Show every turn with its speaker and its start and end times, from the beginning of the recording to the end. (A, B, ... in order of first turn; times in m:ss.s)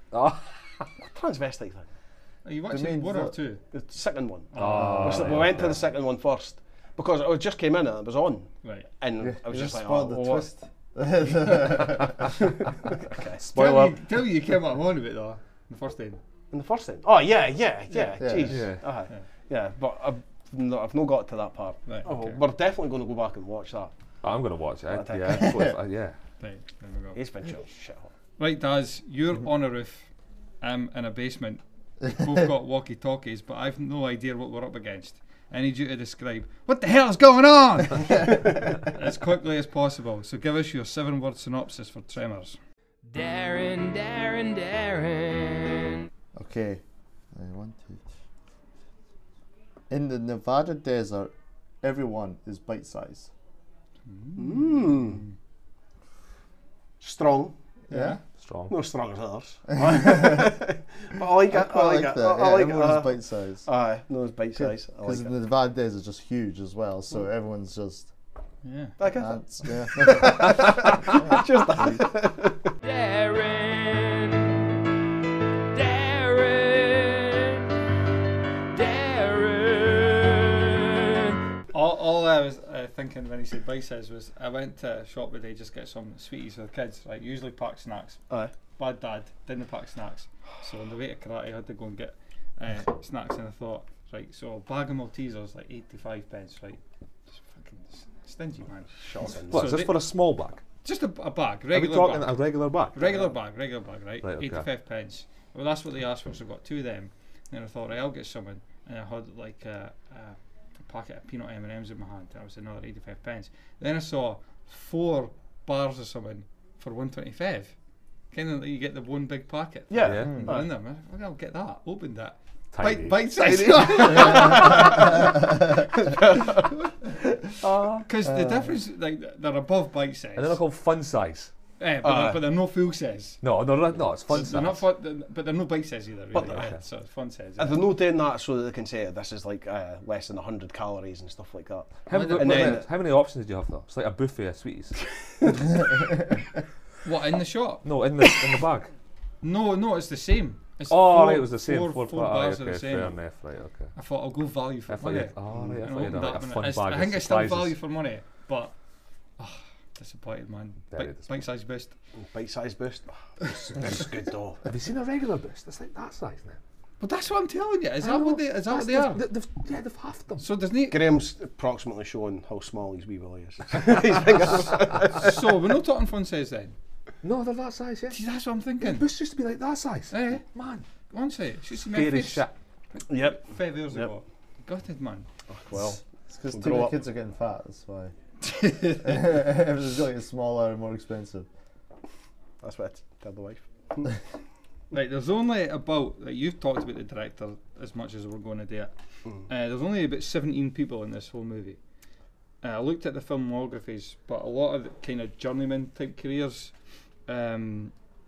0:00.1-0:00.9 A
0:01.0-0:01.9 B
0:02.4-0:03.6 C
0:02.7-0:03.4 D
0:03.7-0:10.5 B
0:04.5-0:05.5 C
0:04.6-0:05.8 A
0:08.6-0:08.9 C
0:09.2-0:12.4 D
0:12.9-0:13.4 B
0:13.4-0:14.0 A
0:13.5-0:16.2 C
0:16.5-0:23.9 B
0:18.2-0:18.6 D
0:18.5-0:18.8 A
0:21.9-0:22.4 C
0:24.2-0:26.2 A
0:24.9-0:25.5 B
0:25.4-0:25.7 D
0:26.4-0:27.2 C
0:27.2-0:28.1 B
0:28.4-0:30.1 C
0:30.6-0:42.6 C
0:43.1-0:45.7 E
0:46.3-0:46.8 D
0:47.3-0:48.0 D
0:49.9-0:53.3 D
0:54.1-0:55.3 C
0:54.4-0:55.2 B
0:57.0-0:57.6 B
0:57.9-0:58.2 D
0:57.9-0:58.2 C
0:58.4-0:58.8 A
0:58.7-1:05.4 B
0:59.7-1:00.4 D
1:01.4-1:03.7 D
1:04.6-1:08.1 D
1:08.6-1:09.0 C
1:09.0-1:12.8 B
1:09.1-1:12.0 D
1:12.9-1:13.3 E
1:15.9-1:16.6 E
1:21.7-1:28.2 C
1:28.8-1:36.8 C
1:37.3-1:40.0 C
1:39.0-1:39.7 B
1:39.5-1:40.6 A
1:40.8-1:42.4 C
1:41.7-1:43.3 A
1:42.9-1:57.7 C
1:44.2-1:44.6 A
1:58.3-2:05.3 C
1:59.9-2:00.7 B
2:00.0-2:00.5 A
2:00.2-2:00.5 D
2:02.7-2:04.8 A
2:06.0-2:06.6 B
2:08.1-2:10.6 C
2:08.2-2:08.8 D
2:10.4-2:11.5 A
2:11.8-2:13.4 C
2:12.0-2:12.4 B
2:13.4-2:14.9 A
2:14.3-2:17.8 C
2:16.3-2:16.7 B
2:16.5-2:16.8 A
2:17.6-2:22.9 B
2:22.1-2:25.0 A
2:22.1-2:22.8 C
2:27.0-2:27.8 C
2:27.8-2:28.9 A
2:29.4-2:33.2 C
2:30.9-2:33.9 A
2:34.0-2:38.8 C
2:34.9-2:37.8 A
2:35.5-2:35.8 B
2:39.4-2:42.0 C
2:40.9-2:41.4 A
2:42.2-2:44.6 B
2:44.6-2:46.6 A
2:47.0-2:49.2 C
2:48.0-2:50.5 A
2:50.4-2:51.0 C
2:50.9-2:55.4 B
2:55.0-2:56.8 C
2:57.2-2:58.2 A
2:58.1-2:59.1 C
2:58.8-3:00.8 A
3:00.1-3:05.3 C
3:01.8-3:02.5 A
3:03.1-3:04.1 B
3:05.5-3:07.0 B
3:06.3-3:08.1 D
3:08.4-3:09.4 C
3:09.0-3:11.5 D
3:12.6-3:14.1 B
3:14.9-3:18.9 C
3:19.5-3:21.8 C
3:22.6-3:26.7 C
3:27.3-3:27.9 C